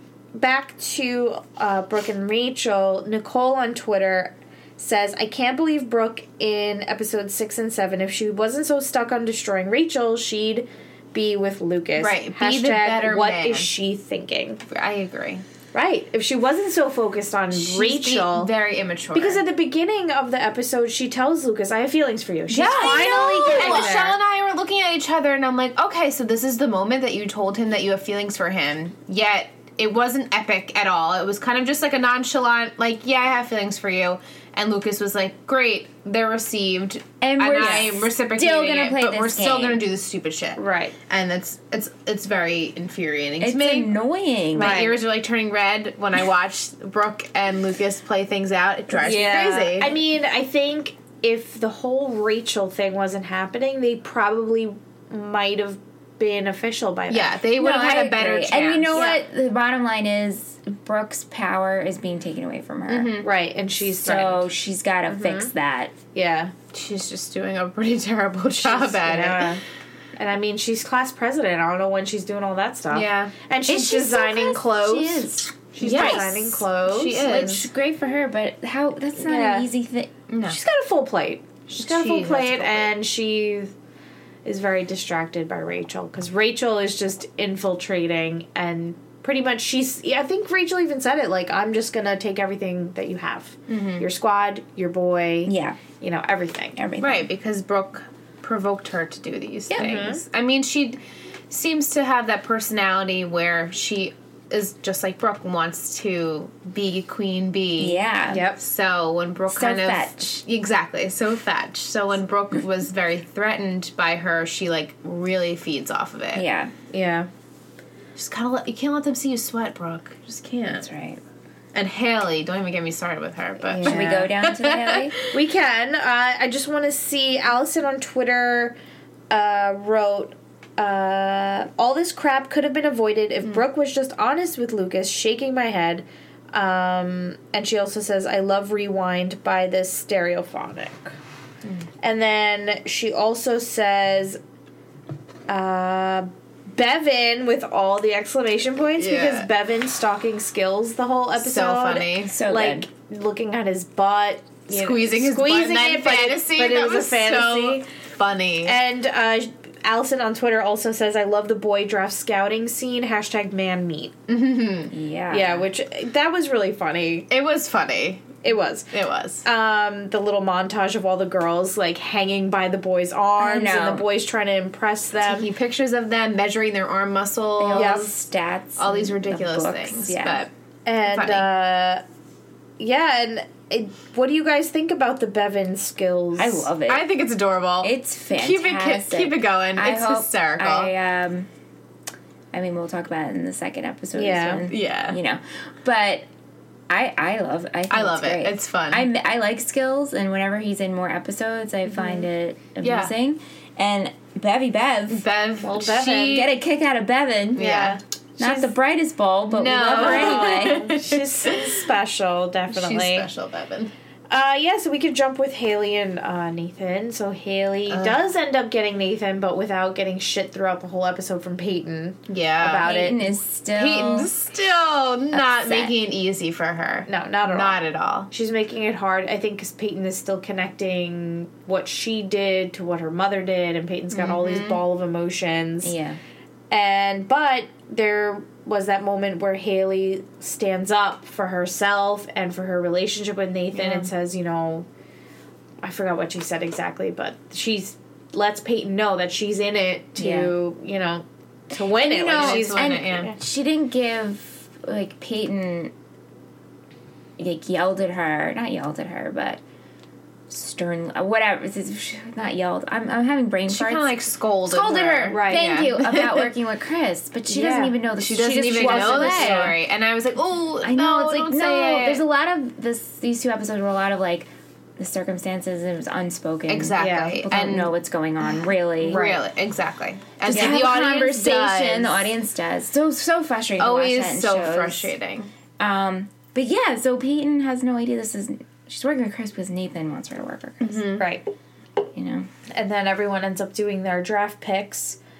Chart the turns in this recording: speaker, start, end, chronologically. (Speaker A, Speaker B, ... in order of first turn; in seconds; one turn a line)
Speaker A: 0.3-14.6
Speaker B: 12.0-13.7
Speaker B: 14.7-15.4
Speaker A: 15.7-18.5
Speaker B: 17.5-19.4
Speaker A: 19.1-24.2
Speaker C: 22.5-24.0
Speaker B: 22.5-43.9
Speaker C: 37.2-39.8
Speaker A: 37.6-37.9
Speaker A: 40.5-40.9
Speaker C: 43.4-44.8
Speaker B: 44.5-50.0
Speaker A: 44.5-45.0
Speaker A: 48.9-57.4
Speaker B: 57.1-59.1
Speaker C: 57.6-63.2
Speaker A: 58.9-59.2
Speaker B: 62.9-63.3
Speaker A: 63.2-64.5
Speaker C: 63.9-65.9
Speaker A: 65.1-65.5
Speaker A: 66.1-66.5
Speaker B: 66.7-69.5
Speaker A: 68.6-69.6
Speaker A: 70.2-74.8
Speaker B: 72.9-77.7
Speaker C: 73.7-76.5
Speaker A: 75.7-77.7
Speaker C: 77.2-80.1
Speaker A: 79.2-79.7
Speaker B: 80.3-80.6
Speaker A: 80.4-83.7
Speaker B: 81.8-82.9
Speaker A: 84.4-96.8
Speaker B: 93.7-94.0
Speaker C: 95.5-95.8
Speaker C: 96.8-97.3
Speaker B: 97.0-101.0
Speaker A: 99.7-100.2
Speaker B: 101.5-108.0
Speaker C: 107.8-108.4
Speaker A: 108.3-108.6
Speaker B: 108.6-116.4
Speaker C: 109.5-110.3
Speaker C: 116.3-116.7
Speaker A: 116.9-117.3
Speaker B: 118.1-120.9
Speaker C: 120.7-121.2
Speaker B: 121.7-125.3
Speaker A: 123.7-124.3
Speaker C: 123.8-125.2
Speaker A: 125.3-128.7
Speaker A: 129.3-141.2
Speaker A: 142.0-144.4
Speaker A: 145.5-157.8
Speaker B: 149.0-149.5
Speaker B: 151.3-152.3
Speaker C: 152.3-152.8
Speaker B: 154.7-158.8
Speaker A: 158.6-164.1
Speaker B: 164.3-164.9
Speaker C: 164.9-165.6
Speaker A: 165.3-167.3
Speaker B: 167.3-168.4
Speaker A: 168.4-175.5
Speaker B: 168.9-169.4
Speaker C: 173.4-174.1
Speaker B: 175.2-178.1
Speaker C: 177.6-180.4
Speaker A: 177.7-178.1
Speaker B: 178.8-180.5
Speaker A: 180.8-182.0
Speaker B: 181.1-181.5
Speaker A: 182.8-186.7
Speaker C: 186.4-187.1
Speaker B: 186.9-190.9
Speaker C: 187.8-191.5
Speaker C: 192.5-196.2
Speaker A: 194.1-194.6
Speaker B: 194.7-195.2
Speaker C: 196.9-205.2
Speaker B: 197.9-199.1
Speaker A: 201.9-202.3
Speaker B: 202.8-203.1
Speaker B: 205.1-206.5
Speaker A: 205.6-206.4
Speaker C: 206.2-207.8
Speaker B: 207.5-208.0
Speaker A: 207.6-208.7
Speaker C: 208.4-210.9
Speaker B: 209.5-211.8
Speaker A: 209.7-213.3
Speaker B: 212.7-213.9
Speaker A: 214.3-223.2
Speaker B: 217.9-218.2
Speaker B: 222.3-222.9
Speaker C: 222.8-224.3
Speaker B: 223.7-228.3
Speaker C: 225.3-225.9
Speaker A: 227.1-235.9
Speaker B: 234.1-234.8
Speaker C: 235.8-236.2
Speaker A: 236.7-244.9
Speaker A: 245.8-253.3
Speaker C: 250.2-250.5
Speaker C: 252.0-255.9
Speaker B: 252.1-253.3
Speaker C: 257.4-259.6
Speaker C: 260.5-269.7
Speaker B: 263.7-266.5
Speaker A: 265.3-265.8
Speaker A: 267.5-268.0
Speaker B: 268.2-272.2
Speaker A: 268.6-269.7
Speaker C: 270.8-279.3
Speaker B: 276.7-277.9
Speaker A: 277.0-277.4
Speaker B: 279.0-282.3
Speaker A: 279.0-279.4
Speaker C: 280.4-285.1
Speaker A: 280.5-280.8
Speaker B: 283.8-285.5
Speaker C: 285.8-291.2
Speaker B: 290.8-291.2
Speaker A: 291.2-291.4
Speaker C: 292.1-292.5
Speaker A: 292.7-295.2